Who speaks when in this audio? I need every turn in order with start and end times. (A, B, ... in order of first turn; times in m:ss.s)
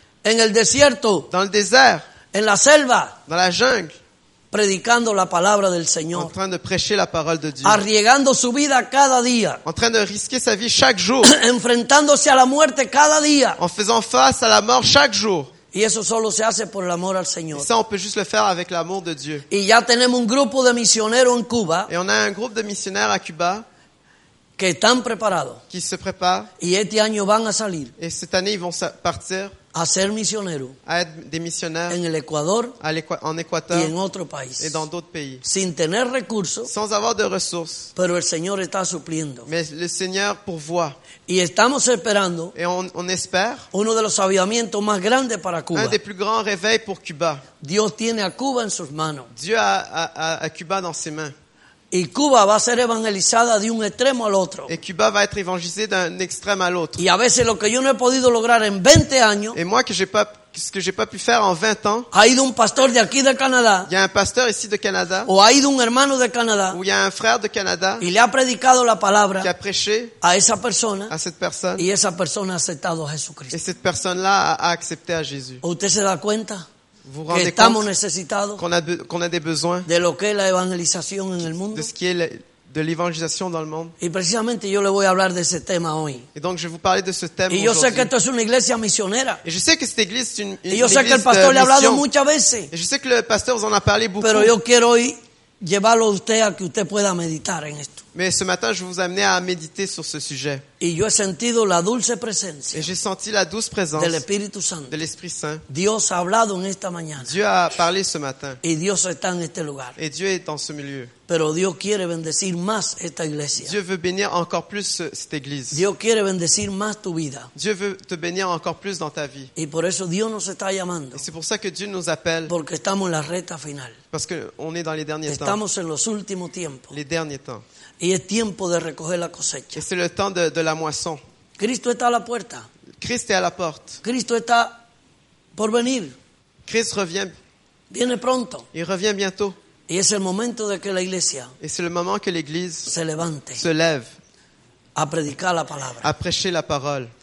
0:00.2-0:01.3 A
0:01.3-0:02.0 B
0:02.3-0:03.2 A
0:03.3-0:03.9 B
0:04.5-0:06.3 A
0:06.1-0:07.8 B
0:07.6-0:09.6 A
0:09.7-0:11.3 B
0:11.2-0:13.6 A
0:13.6-0:15.5 B
0:15.7-0:17.7 A
0:17.5-0:19.4 B
0:19.5-0:21.9 A
0:21.9-0:23.6 B
0:24.6-0:25.6 A
0:25.7-0:26.5 B
0:26.6-0:27.9 A
0:28.0-0:29.5 B
0:29.7-0:30.8 A
0:30.9-0:32.0 B
0:31.9-0:32.8 A
0:32.8-0:33.9 B
0:33.7-0:34.8 A
0:34.6-0:35.4 B
0:35.4-0:36.7 A
0:36.7-0:37.9 B
0:38.0-0:39.5 A
0:39.5-0:41.0 B
0:41.3-0:42.6 A
0:42.6-0:43.7 B
0:43.7-0:46.0 A
0:45.7-0:47.4 B
0:47.6-0:49.3 A
0:49.3-0:51.3 B
0:51.9-0:54.7 A
0:54.7-0:57.0 B
0:57.0-0:59.6 A
0:59.5-1:02.1 B
1:02.1-1:03.9 A
1:03.9-1:05.3 B
1:05.3-1:06.8 A
1:06.7-1:08.0 B
1:08.0-1:09.5 A
1:09.4-1:10.2 B
1:10.2-1:11.1 A
1:11.1-1:11.8 B
1:11.8-1:13.6 A
1:13.5-1:15.6 B
1:15.6-1:16.6 A
1:17.1-1:17.9 B
1:17.3-1:18.6 A
1:18.6-1:19.9 B
1:19.9-1:21.9 A
1:21.7-1:23.9 B
1:24.0-1:26.3 A
1:26.4-1:28.1 B
1:27.5-1:29.4 A
1:29.4-1:32.1 B
1:30.7-1:32.7 A
1:32.7-1:34.6 B
1:34.2-1:38.0 A
1:38.2-1:40.6 B
1:40.8-1:42.9 A
1:42.7-1:44.2 B
1:44.0-1:45.0 A
1:44.9-1:45.6 B
1:45.7-1:47.3 A
1:47.2-1:48.6 B
1:48.6-1:50.0 A
1:50.0-1:51.1 B
1:51.3-1:53.7 A
1:53.6-1:55.8 B
1:55.7-1:57.5 A
1:57.6-1:59.5 B
1:59.6-2:01.2 A
2:01.2-2:02.5 B
2:02.5-2:04.0 A
2:04.1-2:05.6 B
2:05.3-2:06.9 A
2:06.9-2:07.6 B
2:08.0-2:09.8 A
2:09.8-2:11.2 B
2:11.6-2:12.7 A
2:13.0-2:14.0 B
2:14.0-2:14.8 A
2:15.6-2:16.2 A
2:16.6-2:17.3 B
2:17.9-2:18.7 A
2:18.7-2:19.6 B
2:19.9-2:21.5 A
2:21.6-2:22.9 B
2:22.9-2:23.6 A
2:23.6-2:24.1 B
2:25.0-2:26.1 A
2:26.0-2:27.1 B